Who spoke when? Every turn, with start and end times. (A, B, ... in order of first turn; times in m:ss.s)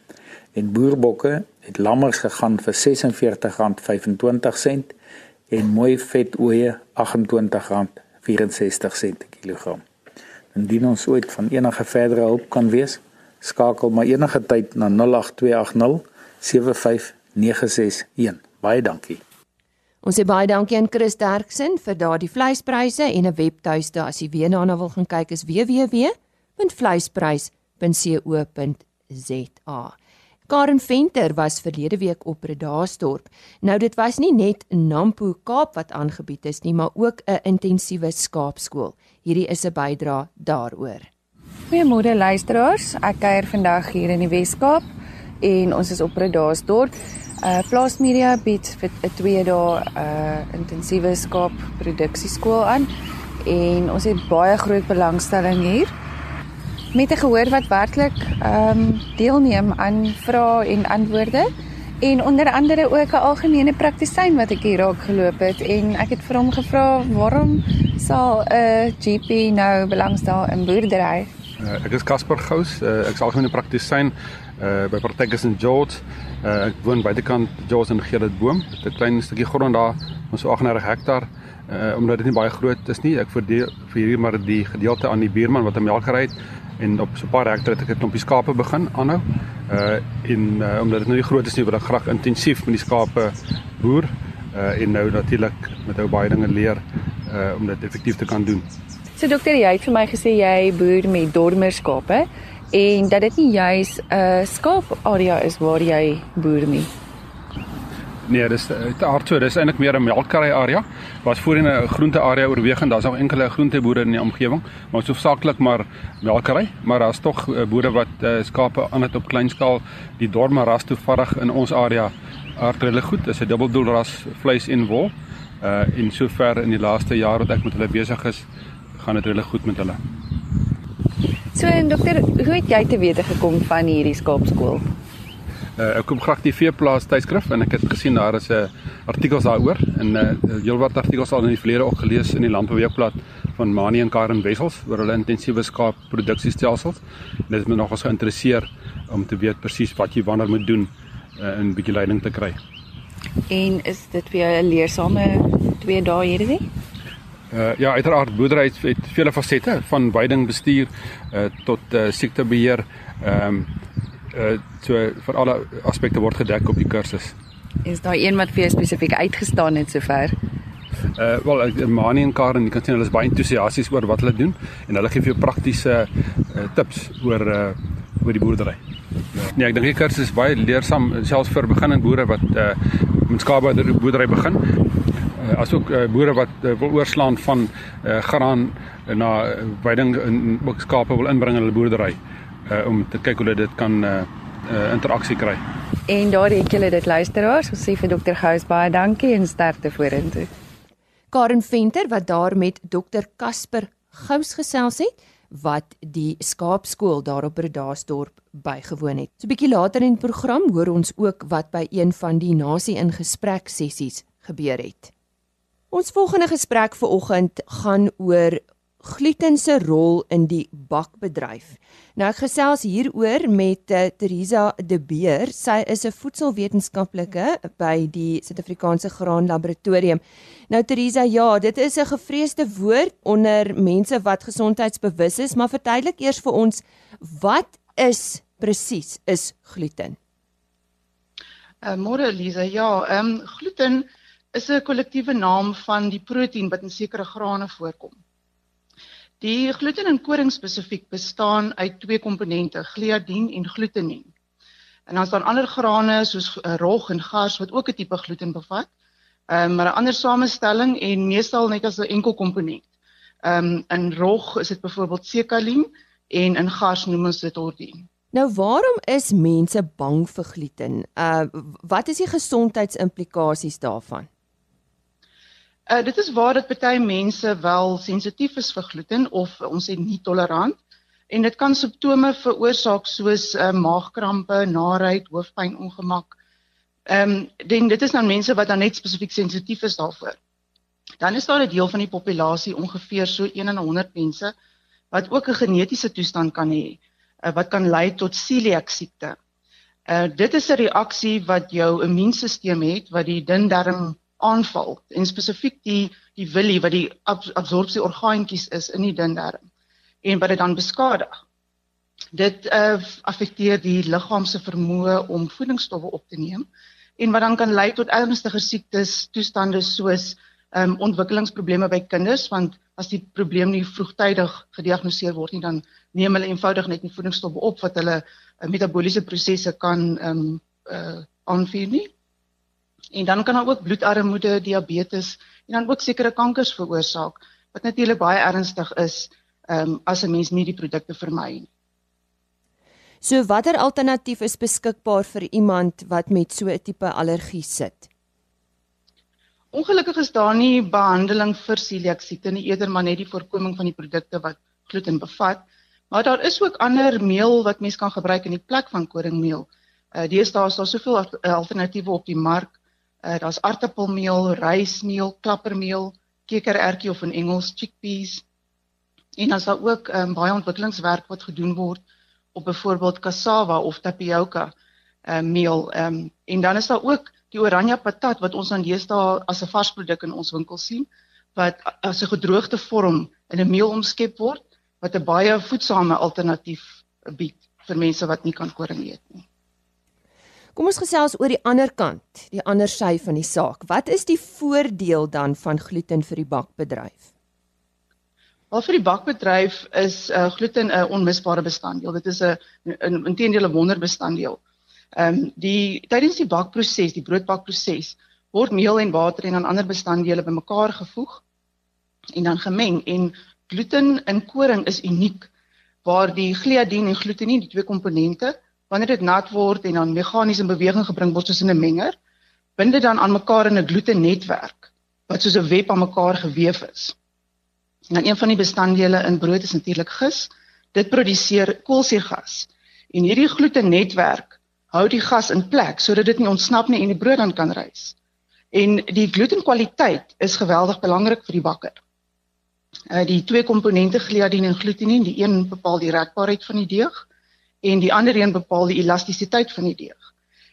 0:00.6-0:04.9 A
0:05.5-0:09.8 A
0:10.5-0:19.2 A
0:20.0-0:30.0 B
0:30.5-0:41.1 B
0:41.7-0:44.9 C
0:45.4-0:52.9 C
0:53.4-0:55.9 C
0:56.9-1:11.3 C
1:11.6-1:38.7 D
1:39.2-1:46.9 C
1:48.3-2:08.5 D
2:09.0-2:10.0 D
2:11.5-2:14.9 C
2:15.8-2:32.6 D
2:33.5-2:36.7 C
2:37.5-2:43.7 D
2:44.3-2:47.4 D
2:47.8-2:50.4 C
2:51.2-2:58.8 D
2:59.4-3:04.8 D
3:05.4-3:15.6 D
3:16.1-3:20.5 C
3:21.3-3:35.1 B
3:35.9-4:00.2 B
4:01.8-4:08.2 E
4:09.4-4:14.3 E
4:15.1-4:18.9 E
4:19.5-4:22.9 E
4:23.4-4:28.1 E
4:28.3-4:34.3 B
4:35.9-4:40.8 E
4:41.3-4:46.3 E
4:47.1-4:50.4 E
4:51.2-4:54.6 E
4:55.1-4:59.4 E
5:00.1-5:09.6 E
5:10.2-5:11.4 E
5:12.3-5:16.7 E
5:17.2-5:32.1 E
5:33.1-5:41.7 E
5:43.2-5:48.1 B
5:49.7-6:08.4 E
6:09.4-6:12.0 E
6:12.5-6:14.7 E
6:15.3-6:29.4 E
6:30.8-6:37.3 B
6:38.7-6:44.6 E
6:45.2-6:51.4 E
6:52.3-6:55.5 E
6:56.0-7:02.2 E
7:02.8-7:07.2 E
7:08.1-7:18.2 E
7:18.7-7:22.0 E
7:23.1-7:27.3 E
7:27.8-7:30.2 E